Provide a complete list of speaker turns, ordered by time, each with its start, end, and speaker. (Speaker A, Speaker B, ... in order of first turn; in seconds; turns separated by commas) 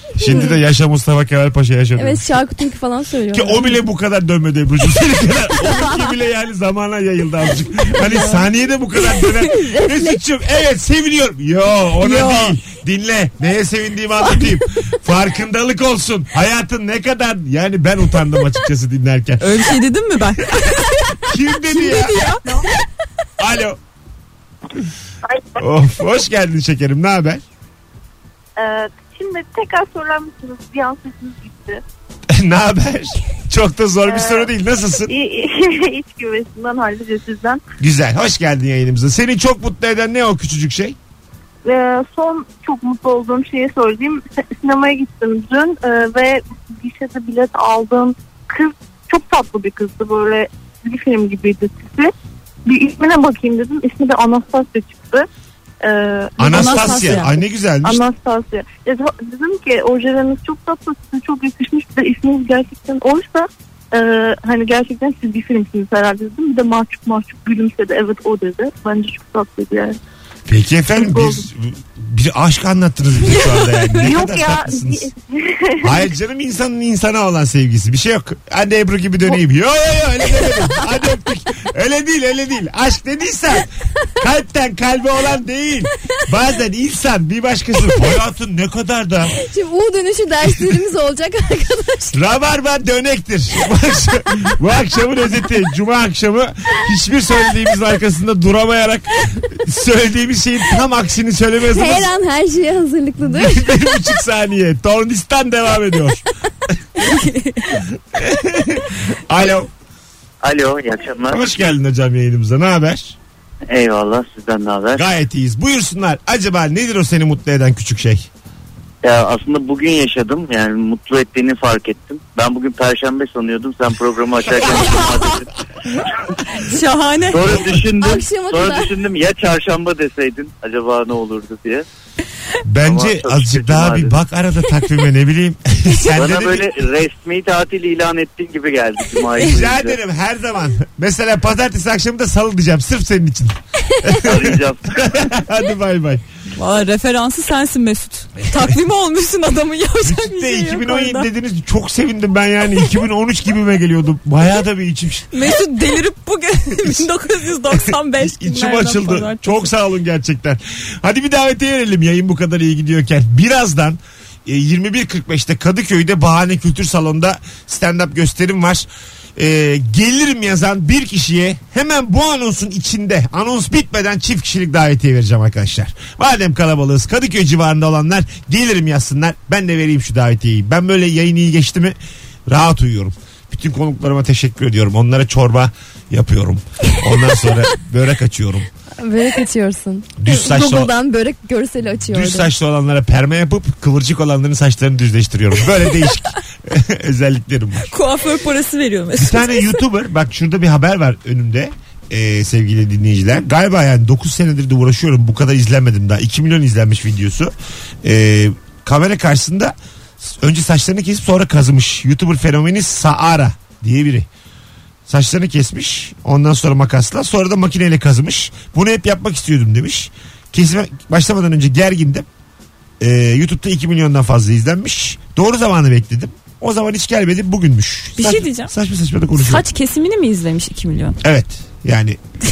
Speaker A: 0.2-2.2, Speaker B: 2.0-3.8, Speaker A: 3.3-19.6, Speaker B: 9.2-10.2, Speaker C: 12.0-12.6, Speaker C: 19.4-22.4, Speaker A: 21.2-22.2, Speaker A: 23.4-23.8, Speaker D: 25.3-25.6, Speaker A: 25.6-27.4, Speaker D: 28.6-31.8, Speaker A: 32.3-35.1, Speaker D: 34.0-34.5, Speaker D: 35.1-37.6, Speaker A: 37.8-41.0, Speaker D: 41.6-52.1, Speaker D: 52.6-55.3, Speaker D: 55.8-57.3, Speaker A: 56.4-58.0, Speaker C: 56.5-57.3, Speaker D: 57.8-70.0, Speaker A: 70.5-75.1, Speaker D: 71.0-71.4, Speaker C: 73.2-74.2, Speaker D: 74.0-76.0, Speaker A: 75.8-89.3, Speaker B: 89.4-92.2, Speaker A: 92.1-102.1, Speaker B: 101.7-103.9, Speaker A: 103.2-106.2, Speaker C: 107.0-107.8, Speaker A: 108.0-109.7, Speaker E: 110.4-111.4, Speaker A: 111.3-113.2, Speaker E: 113.7-115.0, Speaker A: 114.9-118.3, Speaker E: 119.0-125.5, Speaker C: 126.5-127.6, Speaker E: 127.3-131.8, Speaker B: 128.0-128.9, Speaker A: 132.6-136.7, Speaker E: 132.8-134.2, Speaker E: 136.1-140.0, Speaker A: 139.4-146.2, Speaker E: 144.2-145.0, Speaker C: 146.5-151.3, Speaker A: 148.4-148.8, Speaker A: 150.0-155.4, Speaker C: 155.3-159.7, Speaker A: 156.8-157.1, Speaker A: 157.7-182.0, Speaker A: 182.5-188.7, Speaker B: 189.0-192.5, Speaker A: 190.2-190.9, Speaker A: 192.0-197.9, Speaker C: 197.9-199.8, Speaker A: 199.2-214.3, Speaker A: 215.1-222.2, Speaker A: 223.0-229.6, Speaker C: 228.2-228.7, Speaker C: 229.3-231.2, Speaker A: 231.2-232.2